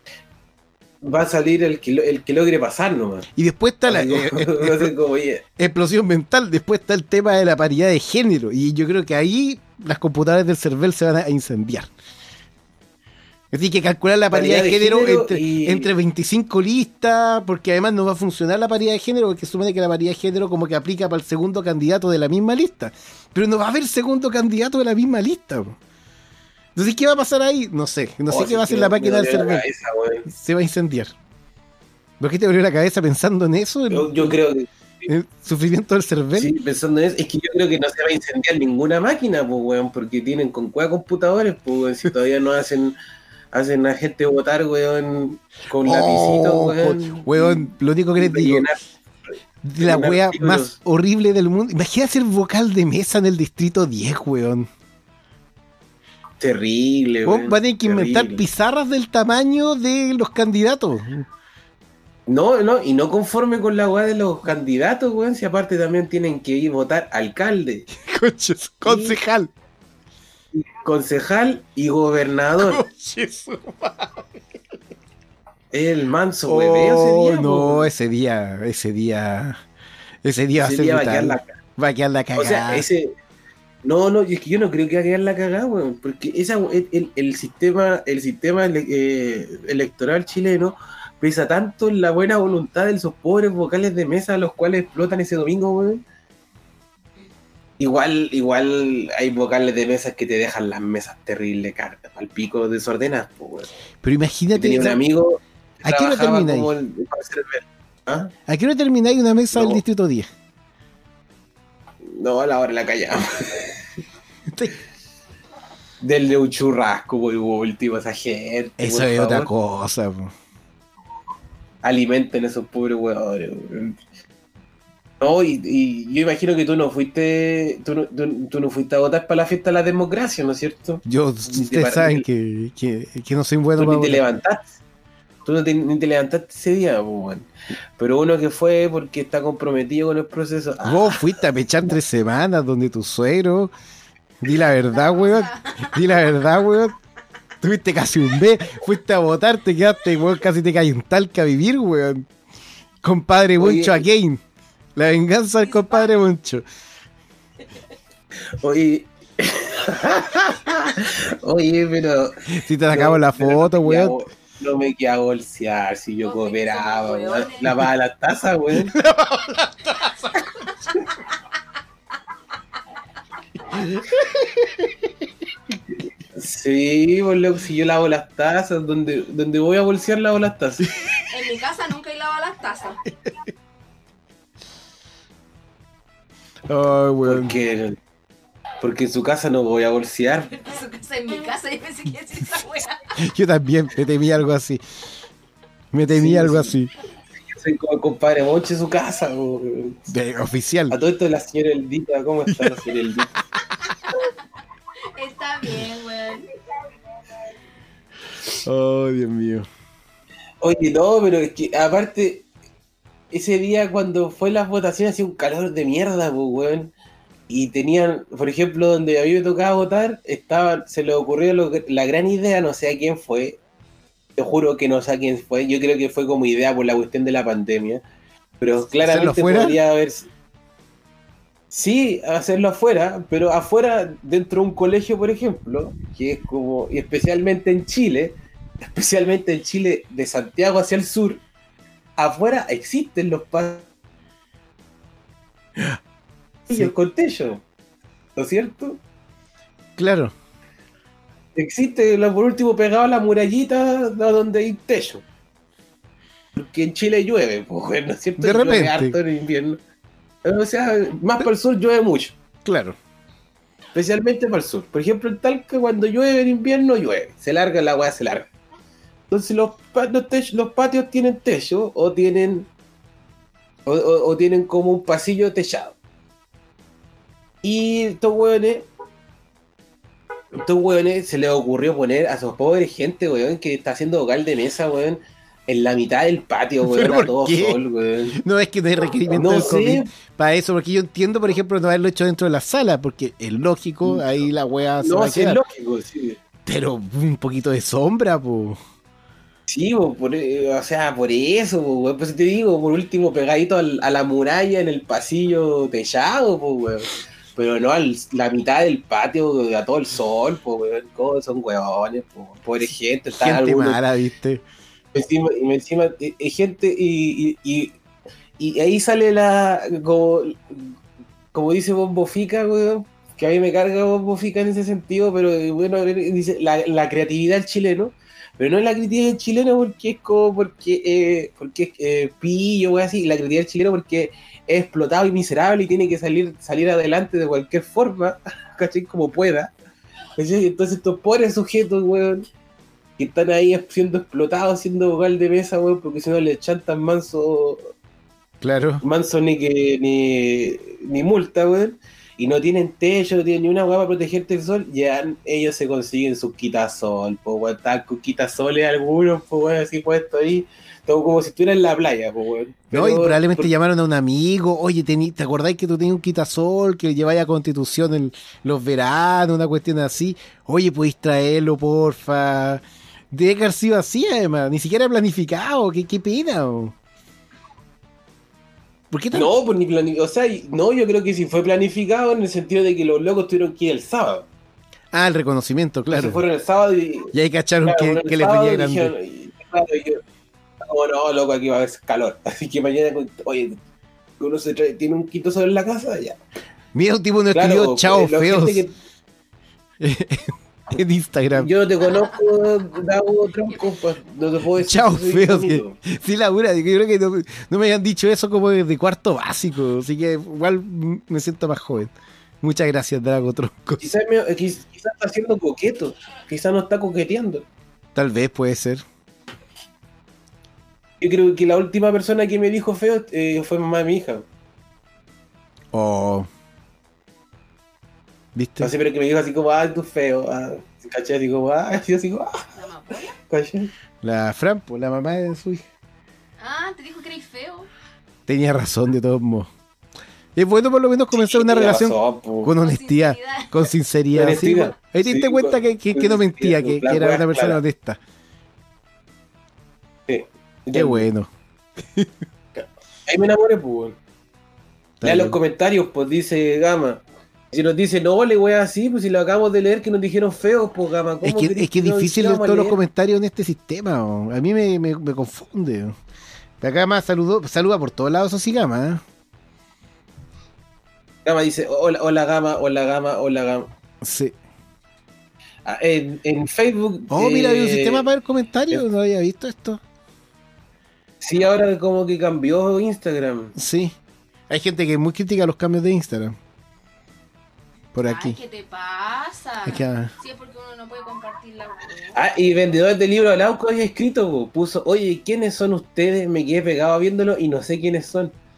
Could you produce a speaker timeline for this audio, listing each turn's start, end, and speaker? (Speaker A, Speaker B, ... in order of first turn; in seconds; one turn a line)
Speaker A: 1.0-3.2
Speaker B: 3.4-4.9
Speaker A: 3.9-5.4
Speaker B: 5.6-11.9
Speaker B: 13.5-25.8
Speaker A: 14.3-15.9
Speaker B: 26.7-29.6
Speaker A: 28.3-30.2
Speaker B: 30.3-31.1
Speaker B: 32.2-34.4
Speaker A: 33.9-35.1
Speaker B: 35.1-36.5
Speaker A: 36.4-43.0
Speaker A: 43.5-48.8
Speaker B: 45.8-48.6
Speaker B: 49.6-54.7
Speaker A: 49.8-50.7
Speaker A: 56.4-58.4
Speaker B: 57.2-61.2
Speaker A: 62.3-67.9
Speaker B: 68.0-69.5
Speaker A: 68.8-69.2
Speaker A: 70.5-72.8
Speaker B: 72.6-74.4
Speaker A: 75.7-77.9
Speaker B: 76.5-79.6
Speaker B: 80.2-82.8
Speaker A: 80.6-81.5
Speaker A: 82.3-83.1
Speaker A: 83.8-96.0
Speaker A: 97.8-103.7
Speaker B: 104.0-105.0
Speaker A: 104.5-108.3
Speaker B: 105.8-106.7
Speaker B: 108.5-110.3
Speaker A: 109.5-109.8
Speaker A: 112.0-113.8
Speaker B: 114.5-114.7
Speaker A: 116.0-119.5
Speaker B: 118.8-120.3
Speaker A: 121.8-124.0
Speaker A: 125.2-132.2
Speaker B: 131.0-134.2
Speaker A: 133.8-134.6
Speaker A: 135.4-141.3
Speaker B: 140.8-143.7
Speaker B: 144.4-146.9
Speaker C: 145.1-145.9
Speaker B: 147.6-152.3
Speaker B: 153.0-154.4
Speaker A: 153.6-154.0
Speaker B: 154.9-156.6
Speaker C: 155.7-156.0
Speaker A: 158.6-162.3
Speaker B: 162.5-164.2
Speaker A: 162.9-168.9
Speaker C: 166.2-167.8
Speaker B: 168.7-170.7
Speaker B: 173.7-174.9
Speaker A: 176.3-180.9
Speaker C: 181.2-183.0
Speaker B: 186.7-187.6
Speaker A: 187.2-187.9
Speaker A: 188.8-190.5
Speaker C: 190.5-193.1
Speaker B: 193.2-194.8
Speaker B: 195.9-196.9
Speaker A: 196.1-196.7
Speaker A: 197.5-200.0
Speaker B: 200.1-201.0
Speaker A: 200.9-203.3
Speaker B: 202.5-202.8
Speaker C: 205.0-206.5
Speaker B: 208.6-209.7
Speaker A: 210.6-212.5
Speaker A: 213.3-216.9
Speaker A: 217.5-223.6
Speaker A: 224.4-228.0
Speaker A: 228.6-230.3
Speaker B: 229.0-229.8
Speaker A: 231.7-241.4
Speaker A: 242.2-243.9
Speaker A: 246.7-247.6
Speaker A: 248.3-249.0
Speaker B: 250.0-250.3
Speaker A: 251.6-255.2
Speaker A: 256.6-259.8
Speaker B: 258.4-259.1
Speaker A: 260.4-262.3
Speaker B: 262.6-262.9
Speaker A: 263.9-268.5
Speaker A: 269.3-272.7
Speaker A: 273.9-275.9
Speaker A: 277.6-278.9
Speaker A: 280.5-288.4
Speaker B: 286.8-287.8
Speaker B: 288.4-295.6
Speaker A: 289.3-290.1
Speaker A: 295.0-296.4
Speaker B: 296.6-298.8
Speaker A: 299.7-314.0
Speaker B: 313.3-314.6
Speaker A: 315.1-317.9
Speaker A: 318.6-320.9
Speaker A: 321.5-339.7
Speaker A: 340.4-342.4
Speaker A: 343.2-347.9
Speaker B: 348.6-349.0
Speaker A: 349.0-363.7
Speaker B: 362.9-376.9
Speaker B: 379.1-379.5
Speaker A: 379.3-384.5
Speaker B: 385.1-386.4
Speaker A: 386.1-387.3
Speaker B: 387.3-389.1
Speaker A: 387.8-390.2
Speaker A: 390.8-393.8
Speaker A: 394.4-396.4
Speaker B: 396.9-398.8
Speaker A: 397.5-398.9
Speaker B: 400.0-401.7
Speaker A: 401.5-406.0
Speaker C: 402.2-402.6
Speaker B: 404.8-414.0
Speaker A: 414.0-417.6
Speaker B: 418.1-419.0
Speaker A: 421.2-424.4
Speaker B: 425.9-426.5
Speaker B: 428.5-428.9
Speaker A: 428.8-432.7
Speaker C: 432.7-433.3
Speaker A: 433.4-433.9
Speaker B: 434.2-435.8
Speaker C: 436.6-437.9
Speaker B: 438.5-439.7
Speaker B: 440.6-448.2
Speaker A: 441.3-442.7
Speaker C: 442.8-443.9
Speaker A: 444.3-447.8
Speaker A: 450.3-451.2
Speaker B: 450.9-451.5
Speaker A: 452.8-454.2
Speaker B: 455.2-455.6
Speaker A: 455.2-463.0
Speaker B: 461.4-466.1
Speaker B: 466.8-469.2
Speaker A: 471.4-473.9
Speaker B: 474.2-474.5
Speaker A: 475.9-478.3
Speaker B: 477.3-480.0
Speaker A: 481.4-483.7
Speaker B: 483.8-484.1
Speaker B: 484.7-486.6
Speaker B: 488.1-488.6
Speaker C: 488.2-492.5
Speaker B: 489.8-490.3
Speaker A: 492.3-498.5